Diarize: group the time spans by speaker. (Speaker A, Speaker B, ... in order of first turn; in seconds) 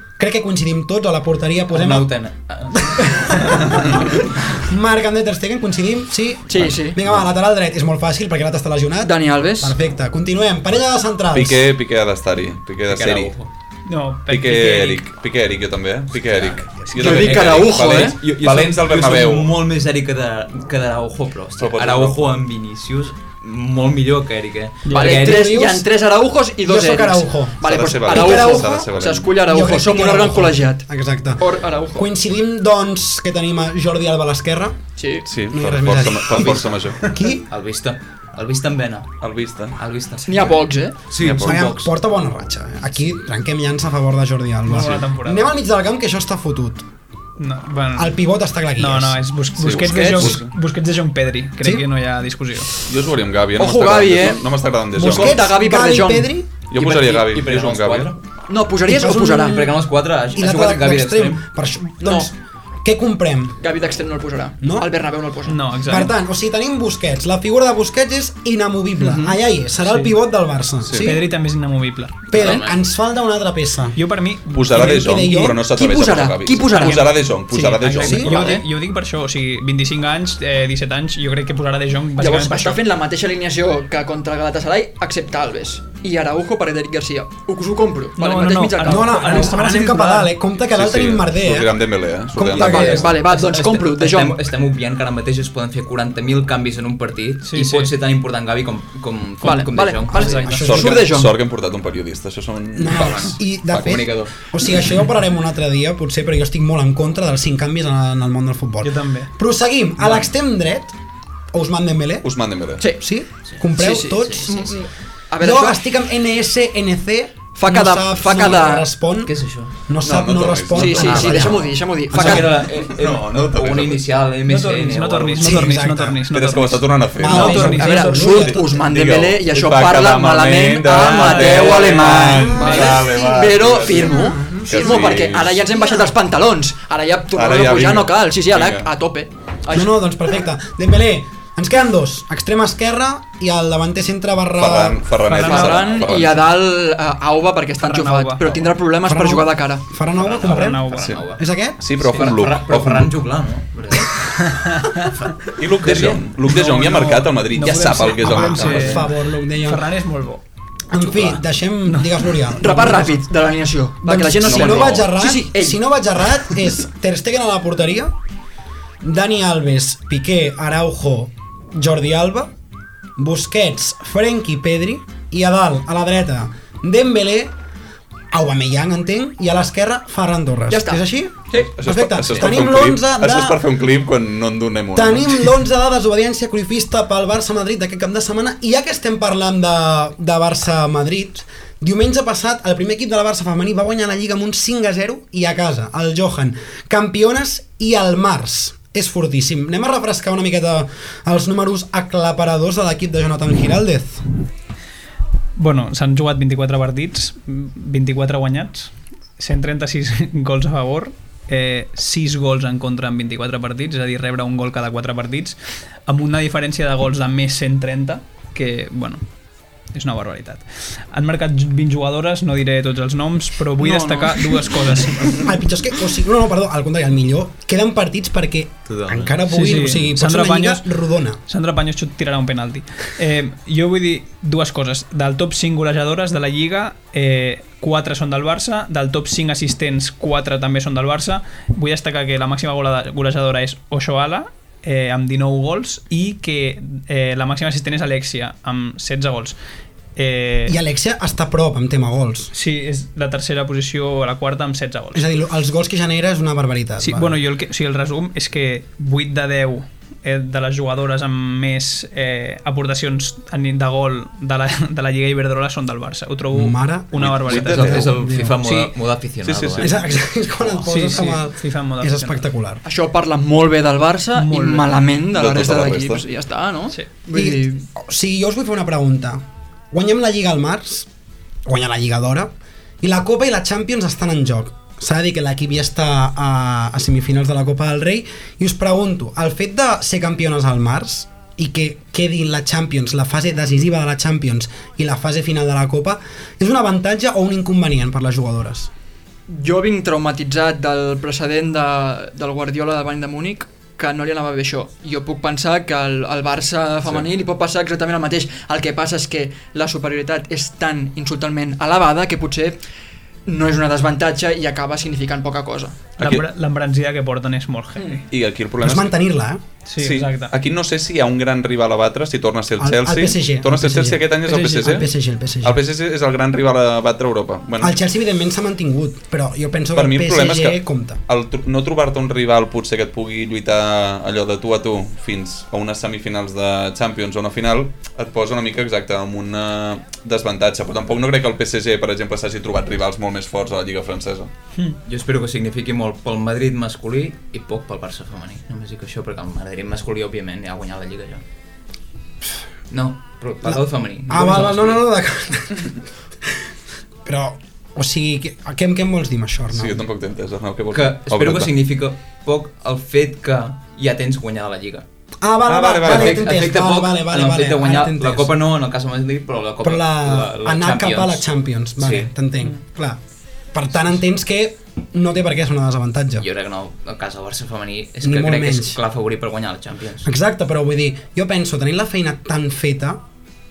Speaker A: 0.2-2.1, 2.7-11.7, 25.0-25.8, 26.6-28.9, 29.5-34.8, 35.5-37.4, 41.4-46.9, 48.0-49.2, 54.9-56.5, 58.9-59.8, 60.3-63.5, 64.6-64.9, 65.8-71.2, 72.3-74.0, 74.7-75.6, 77.9-78.5, 88.8-93.2, 100.5-101.2, 102.8-110.9, 111.5-112.3, 112.9-114.8, 115.4-119.3, 119.8-121.7, 125.4-126.2, 127.2-128.8, 134.1-136.1, 139.7-145.1, 149.1-151.8, 156.6-157.2, 158.2-159.9, 160.9-163.1, 164.0-168.1, 169.0-172.5, 173.2-177.5, 178.3-183.6, 184.9-204.2, 225.2-231.4, 250.7-252.5, 255.1-257.4, 266.5-268.6, 269.8-272.8, 277.3-281.1, 281.6-298.9, 318.8-319.6, 322.8-325.8, 327.8-331.2, 353.7-355.9, 357.2-360.1, 365.4-368.6, 369.8-373.2, 373.7-376.5, 378.2-379.0, 380.2-383.2
Speaker B: 1.7-3.4, 12.9-13.5, 16.3-25.5, 36.3-36.7, 37.5-39.2, 39.8-40.3, 41.1-41.9, 56.7-58.2, 59.4-61.4, 72.3-72.7, 93.3-100.5, 102.9-103.3, 103.8-104.3, 114.2-114.7, 119.2-119.7, 121.2-121.5, 122.1-125.7, 150.2-151.4, 152.0-154.3, 155.8-156.2, 228.9-229.4, 267.6-270.0, 345.1-351.4, 352.9-355.0, 360.9-365.0, 366.0-371.4, 372.0-372.3, 376.4-380.3
Speaker C: 6.5-7.0, 9.0-9.7, 17.0-18.2, 24.9-30.8, 31.4-32.1, 35.0-35.2, 40.2-41.0, 49.7-50.4, 53.6-54.4, 55.0-56.3, 58.5-59.7, 62.0-62.3, 63.6-65.5, 72.4-72.6, 75.3-77.1, 78.3-78.6, 82.2-89.5, 92.5-94.4, 99.4-101.3, 112.8-113.0, 113.8-115.8, 117.5-118.9, 120.7-122.5, 127.4-139.9, 145.3-149.8, 162.6-165.8, 180.7-181.7, 223.8-224.6, 272.8-277.9, 299.5-312.8, 313.5-316.0
Speaker D: 11.3-13.3, 14.3-19.5, 21.6-22.3, 27.6-29.3, 35.3-37.0, 39.2-39.8, 41.1-41.7, 49.6-50.5, 52.9-55.4, 56.7-58.1, 70.8-71.1, 74.5-78.6, 90.7-93.2, 100.6-104.3, 112.2-112.8, 120.0-121.5, 122.2-124.0, 126.3-135.7, 137.3-138.9, 144.6-146.5, 151.8-153.2, 155.5-159.0, 164.4-165.1, 181.6-185.5, 267.2-268.2, 269.4-269.9, 275.3-276.2, 316.2-316.4, 318.3-319.2, 320.0-325.1, 325.6-327.9, 329.9-344.5, 359.7-361.7, 365.6-366.6
Speaker E: 13.9-15.0, 24.9-25.2, 44.7-45.5, 47.4-48.1, 48.8-52.7, 65.5-66.1, 69.8-70.1, 71.0-72.3, 74.0-74.9, 77.5-82.8, 88.2-90.3, 97.4-97.9, 100.1-100.7, 108.8-109.3, 124.4-128.4, 130.9-132.9, 145.3-146.1, 147.8-148.7, 150.4-151.2, 154.4-155.1, 156.5-159.1, 159.6-160.4, 161.9-163.0, 205.6-219.2, 219.9-225.5, 229.5-230.8, 231.5-249.6, 250.2-250.7, 252.5-255.2, 257.0-268.0, 268.6-268.9, 270.8-272.3, 274.3-274.9, 316.2-318.2, 319.9-320.6, 324.6-325.1